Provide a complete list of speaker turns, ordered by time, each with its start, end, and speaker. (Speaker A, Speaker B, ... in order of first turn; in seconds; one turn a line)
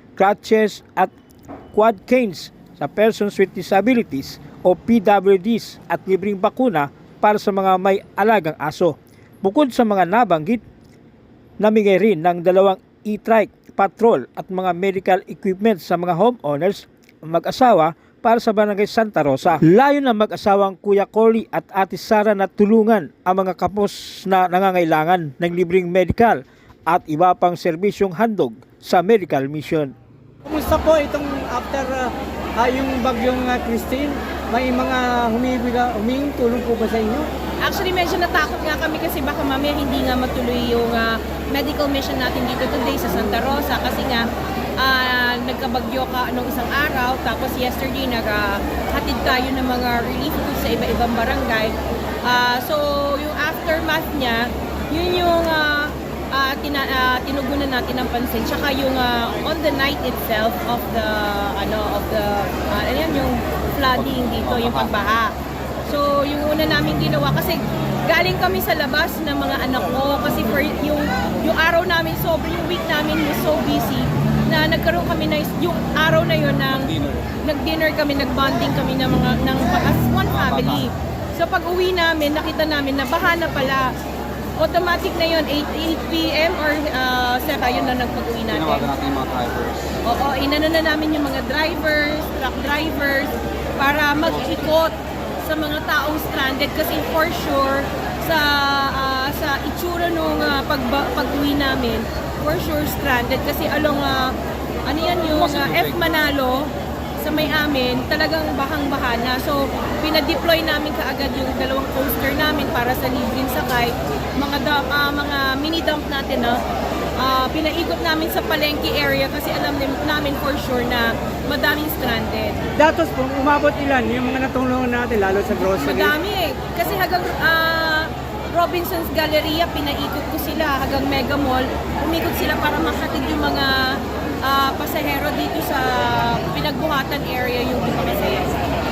Speaker A: 0.1-1.1
Speaker A: 1.7-10.6
Speaker A: 11.6-29.9
Speaker B: 30.4-37.2
Speaker C: 37.6-44.2
Speaker C: 44.8-65.3
Speaker D: 64.0-64.9
Speaker C: 65.8-83.9
Speaker D: 76.8-77.3
Speaker D: 80.3-80.9
Speaker C: 84.6-88.9
Speaker D: 88.5-89.9
Speaker C: 90.0-116.6
Speaker D: 105.3-106.0
Speaker C: 117.2-122.6
Speaker B: 122.8-126.1
Speaker C: 125.8-138.7